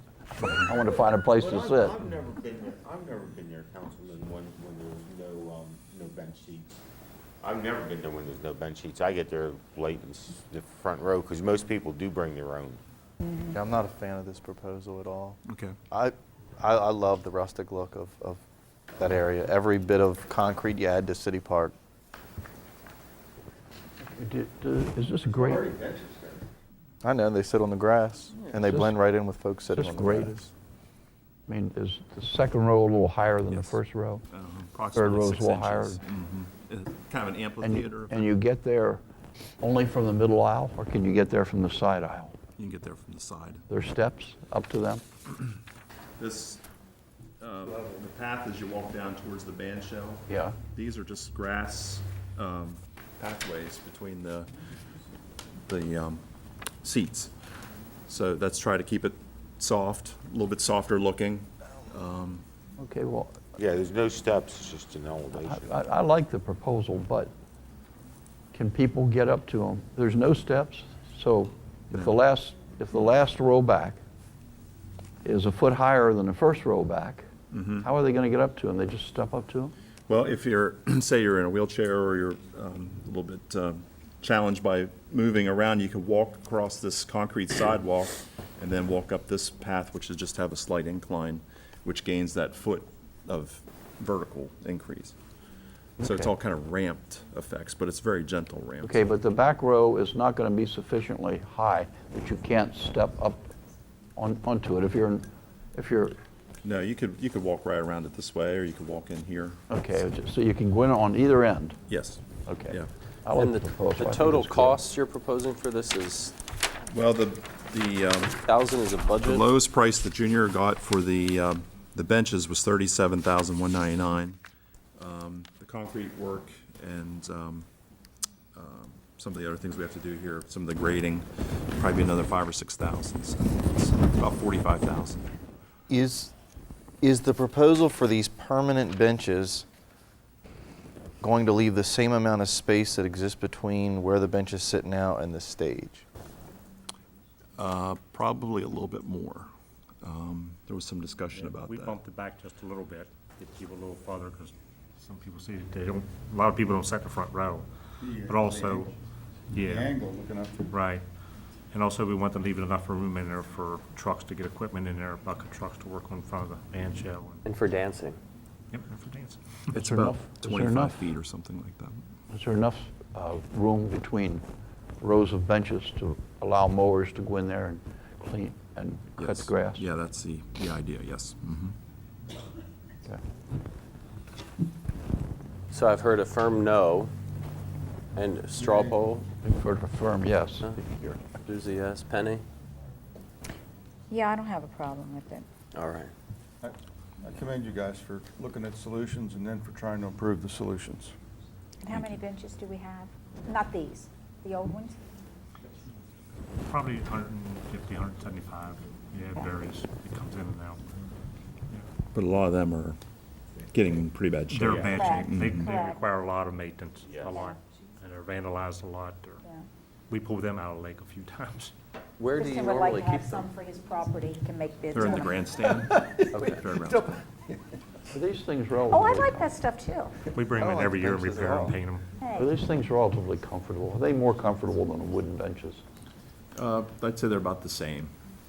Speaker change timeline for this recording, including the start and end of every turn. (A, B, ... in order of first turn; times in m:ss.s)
0:00.4-0:02.0 A
0:01.4-0:06.8 B
0:07.4-0:12.8 B
0:13.5-0:15.4 C
0:15.5-0:15.8 D
0:15.9-0:18.4 C
0:19.0-0:21.7 C
0:24.1-0:25.7 A
0:25.3-0:26.5 E
0:27.0-0:30.5 C
0:28.4-0:28.6 E
0:28.7-0:29.0 A
0:29.7-0:30.4 A
0:31.5-0:34.2 A
0:33.5-0:33.8 D
0:34.3-0:38.3 D
0:34.9-0:36.0 A
0:37.6-0:39.0 A
0:39.6-0:42.4 A
0:42.6-0:43.6 D
0:43.7-0:45.0 A
0:46.2-0:46.6 D
0:47.4-0:54.5 D
0:50.3-0:50.6 A
0:55.7-0:56.2 D
0:56.8-0:57.3 D
0:58.1-1:02.4 D
1:02.8-1:03.4 A
1:03.6-1:05.8 B
1:05.4-1:07.3 A
1:08.5-1:14.0 A
1:15.2-1:17.3 A
1:17.5-1:17.9 D
1:17.8-1:19.7 A
1:20.1-1:35.2 D
1:36.0-1:39.1 D
1:38.8-1:43.5 A
1:44.2-1:46.2 A
1:46.6-1:49.6 D
1:49.7-1:51.8 A
1:51.9-1:52.9 D
1:52.5-1:54.8 A
1:53.3-1:56.4 F
1:56.9-1:58.4 D
1:58.4-1:59.4 F
1:59.2-2:04.4 D
2:05.0-2:07.7 D
2:08.6-2:15.3 D
2:15.9-2:16.3 C
2:17.0-2:19.6 C
2:21.2-2:26.0 C
2:27.6-2:29.5 D
2:30.0-2:32.0 D
2:31.3-2:37.7 G
2:38.0-2:38.9 E
2:38.2-2:38.9 G
2:39.5-2:39.9 G
2:39.6-2:40.7 E
2:40.7-2:41.0 G
2:41.7-2:47.4 G
2:47.4-2:48.2 F
2:48.7-2:49.4 G
2:49.7-2:52.0 D
2:49.8-2:51.0 A
2:52.3-2:54.4 A
2:55.0-2:59.8 A
2:59.2-3:01.8 D
3:05.7-3:07.1 F
3:08.2-3:09.3 F
3:08.5-3:09.0 E
3:09.4-3:11.2 A
3:10.6-3:12.4 F
3:14.1-3:15.5 H
3:15.7-3:16.1 F
3:16.6-3:21.1 E
3:21.8-3:25.0 H
3:21.9-3:22.2 D
3:26.6-3:30.8 G
3:32.1-3:33.0 D
3:33.7-3:35.7 D
3:34.5-3:39.4 G
3:34.8-3:36.0 H
3:37.1-3:37.4 B
3:40.1-3:41.7 G
3:42.2-3:43.5 F
3:42.3-3:45.5 H
3:44.9-3:47.2 D
3:45.9-3:46.2 E
3:46.3-3:46.7 F
3:48.1-3:49.5 A
3:48.9-3:50.1 H
3:50.3-3:52.1 G
3:50.7-3:51.7 C
3:52.2-3:52.6 H
3:52.4-3:55.8 A
3:56.6-3:58.1 D